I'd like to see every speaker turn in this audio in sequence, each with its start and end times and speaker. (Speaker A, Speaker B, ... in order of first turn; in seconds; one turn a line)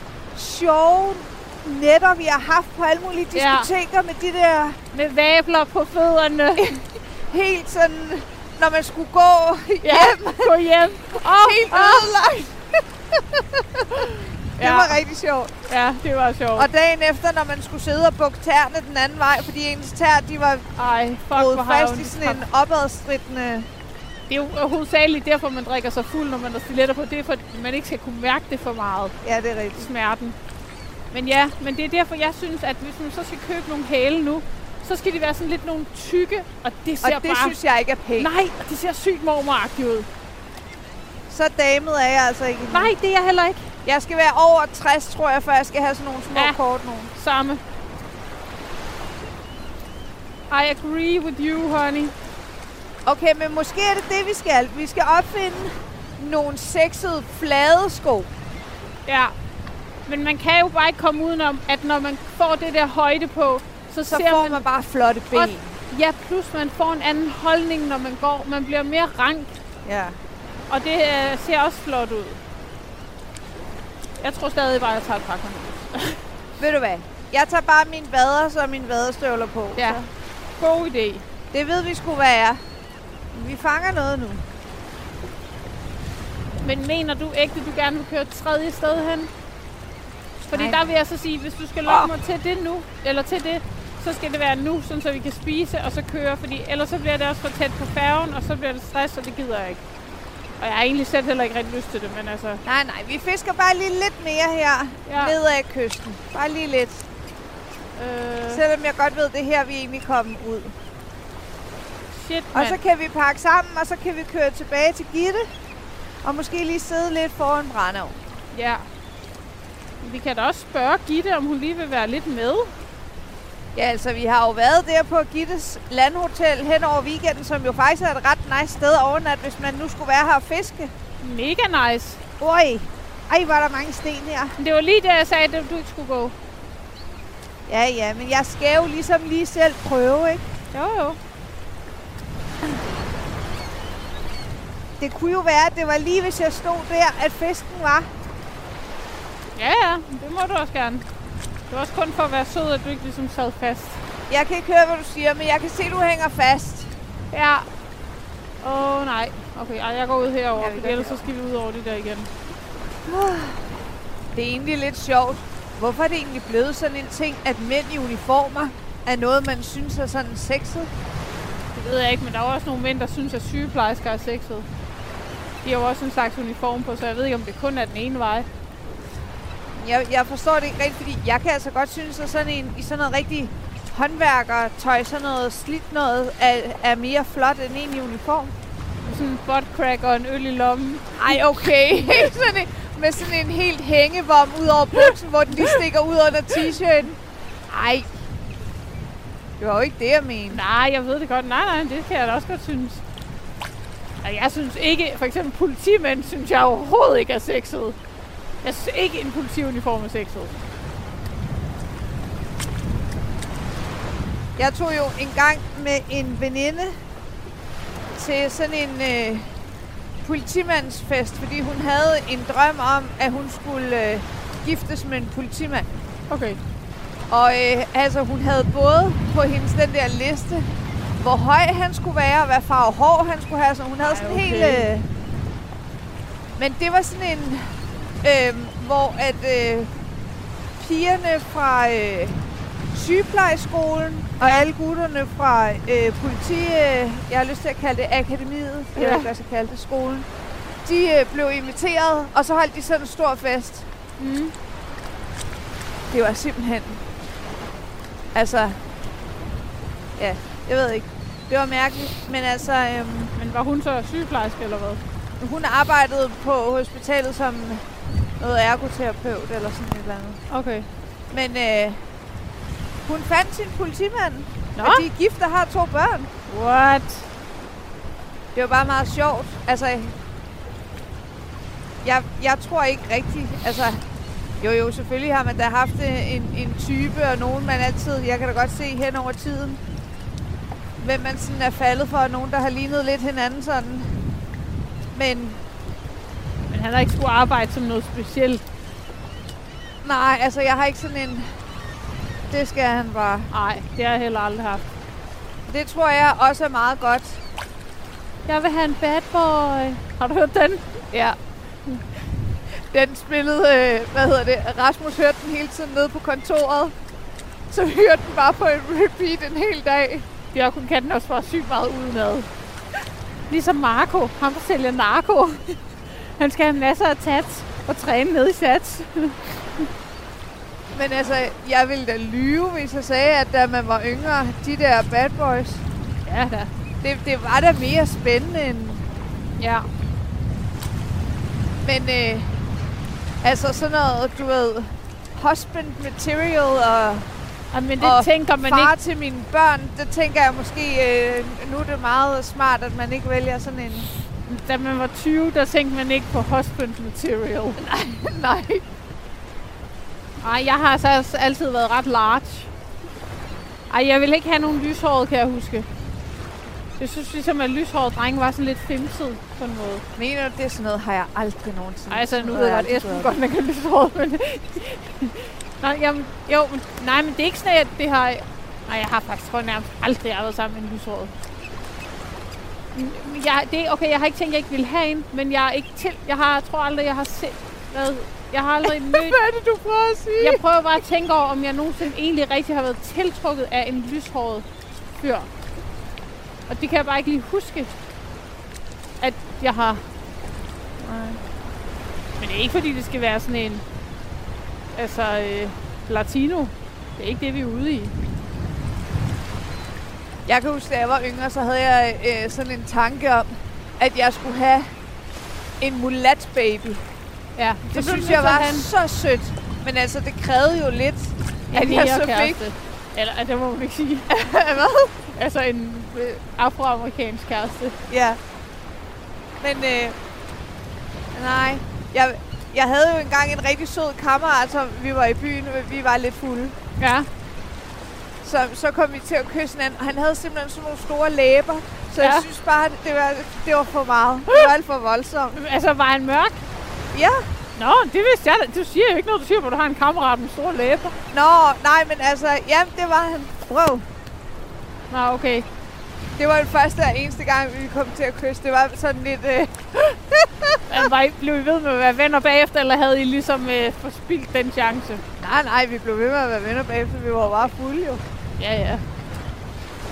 Speaker A: 0.3-4.8
Speaker B: 3.3-3.7
Speaker B: 4.9-6.7
Speaker A: 6.6-10.6
Speaker B: 9.8-12.1
Speaker A: 11.2-15.5
Speaker B: 14.6-15.0
Speaker B: 15.7-16.7
Speaker A: 16.6-20.7
Speaker B: 20.8-22.4
Speaker A: 21.3-23.7
Speaker B: 24.3-29.1
Speaker A: 29.2-29.9
Speaker B: 29.8-30.4
Speaker B: 31.1-37.5
Speaker A: 37.0-38.3
Speaker B: 38.2-40.1
Speaker A: 41.3-42.9
Speaker B: 42.7-43.7
Speaker A: 43.8-47.1
Speaker B: 46.3-46.6
Speaker B: 47.1-47.6
Speaker B: 50.5-52.1
Speaker A: 53.0-58.3
Speaker B: 59.1-59.3
Speaker B: 60.0-64.6
Speaker A: 64.1-65.7
Speaker B: 65.3-69.5
Speaker A: 69.8-70.2
Speaker B: 70.7-72.4
Speaker B: 74.2-76.2
Speaker A: 76.6-80.0
Speaker B: 79.8-80.1
Speaker B: 80.6-81.2
Speaker A: 81.5-82.6
Speaker A: 83.3-84.4
Speaker B: 86.6-89.3
Speaker B: 90.5-99.8
Speaker A: 90.5-90.8
Speaker A: 91.8-92.1
Speaker B: 100.6-102.6
Speaker A: 102.6-107.0
Speaker B: 105.1-105.3
Speaker B: 108.0-108.6
Speaker A: 108.5-110.7
Speaker B: 112.1-112.8
Speaker A: 112.5-115.5
Speaker A: 116.2-118.2
Speaker B: 118.5-118.8
Speaker B: 120.0-122.7
Speaker A: 123.7-130.9
Speaker B: 131.2-132.2
Speaker A: 132.4-134.5
Speaker B: 134.6-136.3
Speaker A: 137.7-140.5
Speaker B: 140.7-141.2
Speaker A: 145.0-148.1
Speaker B: 149.5-151.1
Speaker B: 151.7-154.0
Speaker A: 154.3-156.9
Speaker B: 157.3-157.7
Speaker B: 158.6-162.3
Speaker A: 160.6-161.3
Speaker A: 163.1-163.6
Speaker A: 164.3-170.9
Speaker B: 171.7-174.7
Speaker B: 175.6-178.5
Speaker A: 179.8-188.5
Speaker B: 189.1-191.6
Speaker A: 191.2-197.2
Speaker A: 197.7-198.1
Speaker A: 199.6-200.6
Speaker B: 200.5-203.0
Speaker B: 204.2-208.0
Speaker B: 208.6-210.6
Speaker A: 214.6-216.9
Speaker A: 218.2-219.5
Speaker A: 220.2-225.9
Speaker B: 226.3-226.6
Speaker A: 227.3-230.7
Speaker A: 231.2-235.1
Speaker B: 234.0-234.9
Speaker A: 236.6-237.7
Speaker A: 238.2-239.9
Speaker A: 240.8-242.4
Speaker A: 242.9-250.3
Speaker B: 248.9-249.3
Speaker A: 250.8-253.9
Speaker B: 254.2-254.5
Speaker A: 256.1-257.0
Speaker A: 258.3-258.8
Speaker A: 260.2-263.3
Speaker B: 263.3-265.0
Speaker A: 265.4-267.9
Speaker A: 268.4-270.4
Speaker B: 270.5-270.9
Speaker A: 271.3-272.0
Speaker A: 273.0-276.3
Speaker B: 274.8-275.1
Speaker B: 276.5-277.3
Speaker A: 278.5-280.1
Speaker A: 282.0-284.0
Speaker A: 284.6-289.8
Speaker A: 291.0-294.1
Speaker A: 295.1-295.6
Speaker B: 296.7-298.6
Speaker A: 300.0-301.5
Speaker A: 302.5-303.5
Speaker B: 303.5-304.9
Speaker A: 305.7-307.4
Speaker B: 308.4-310.9
Speaker A: 311.1-311.4
Speaker A: 312.7-316.9
Speaker A: 317.7-320.3
Speaker B: 320.5-322.5
Speaker B: 323.5-329.9
Speaker A: 330.9-335.8
Speaker B: 336.2-336.7
Speaker A: 337.0-339.1
Speaker B: 339.6-339.9
Speaker A: 341.8-342.5
Speaker A: 343.4-347.3
Speaker B: 347.7-348.9
Speaker A: 348.0-354.1
Speaker B: 354.4-357.8
Speaker A: 357.8-358.8
Speaker B: 360.4-362.7
Speaker B: 363.9-365.9
Speaker B: 367.0-370.0
Speaker A: 370.1-373.3
Speaker B: 372.1-381.3
Speaker B: 382.9-389.4
Speaker A: 388.8-390.6
Speaker B: 390.4-394.6
Speaker B: 395.2-395.5
Speaker B: 396.7-397.9
Speaker B: 399.2-400.0
Speaker A: 401.0-401.4
Speaker B: 402.4-403.8
Speaker B: 404.9-408.1
Speaker A: 410.4-414.9
Speaker A: 415.8-417.0
Speaker B: 417.6-418.9
Speaker A: 417.9-422.6
Speaker B: 421.7-424.3
Speaker A: 424.3-425.1
Speaker B: 425.3-428.0
Speaker A: 428.1-428.4
Speaker A: 429.6-430.2
Speaker A: 431.3-436.8
Speaker B: 437.0-437.3
Speaker A: 438.4-445.6
Speaker B: 442.2-442.5
Speaker B: 445.5-446.6
Speaker A: 447.1-447.4
Speaker B: 447.8-451.1
Speaker A: 451.3-454.0
Speaker B: 455.1-455.7
Speaker A: 456.4-461.0
Speaker B: 460.9-465.2
Speaker A: 465.4-468.2
Speaker B: 468.6-469.0